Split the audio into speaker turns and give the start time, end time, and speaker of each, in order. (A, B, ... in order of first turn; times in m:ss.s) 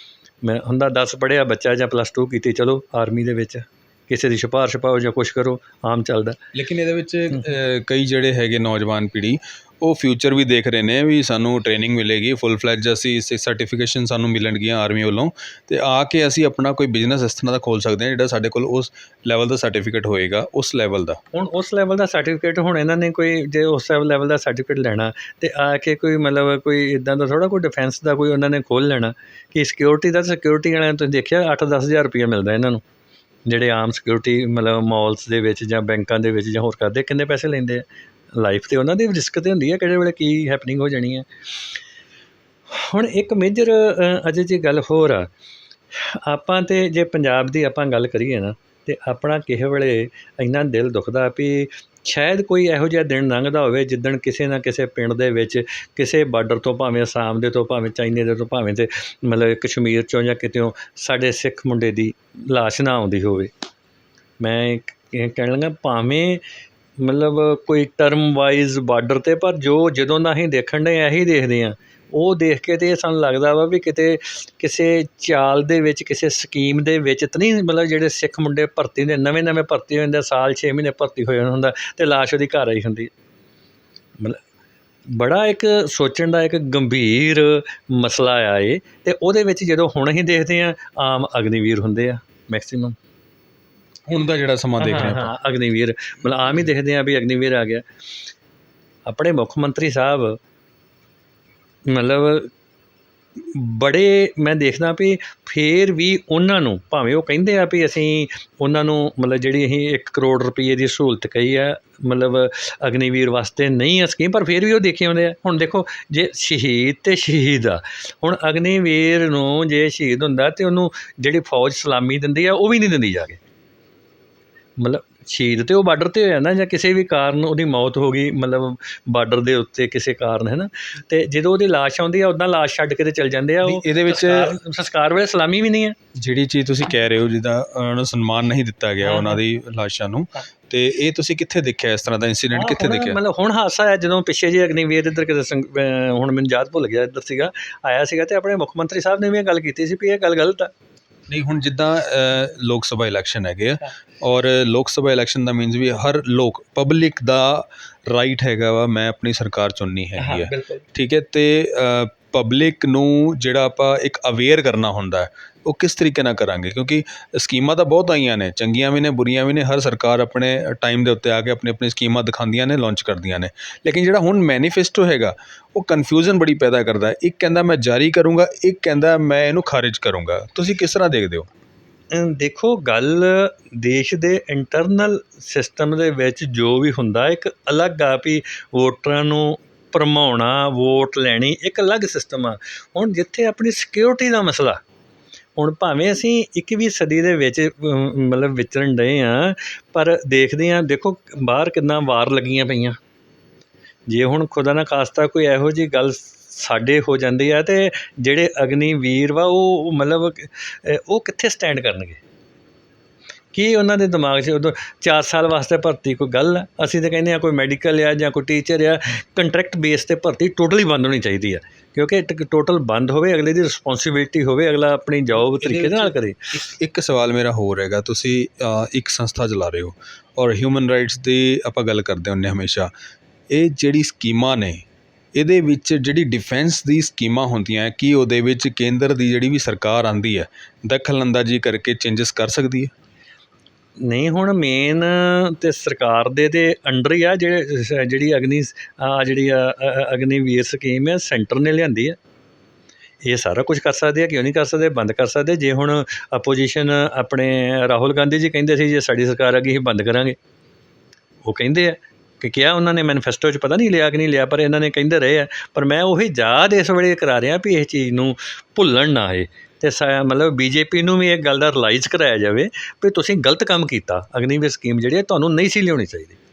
0:00.4-0:06.4 A
0:06.5-0:21.2 B
0:21.3-0:32.8 A
0:33.5-0:37.8 A
0:38.4-0:41.3 A
0:42.7-0:45.3 A
0:45.9-1:03.5 A
1:04.4-1:06.4 A
1:07.0-1:23.1 A
1:25.1-1:33.0 A
1:34.1-1:35.3 B
1:34.8-1:37.8 A
1:39.0-1:40.4 A
1:41.9-1:42.5 A
1:43.4-2:03.4 A
2:04.8-2:16.0 A
2:13.6-2:14.6 B
2:16.2-2:23.2 B
2:19.0-2:19.4 A
2:22.5-2:30.7 A
2:31.3-3:01.5 B
2:40.2-2:40.8 A
3:02.1-3:14.8 A
3:15.6-3:23.0 A
3:24.1-3:32.2 A
3:33.5-3:46.5 A
3:45.4-3:52.9 B
3:53.5-4:02.9 B
4:04.0-4:12.2 A
4:13.2-4:20.4 A
4:21.4-4:36.4 A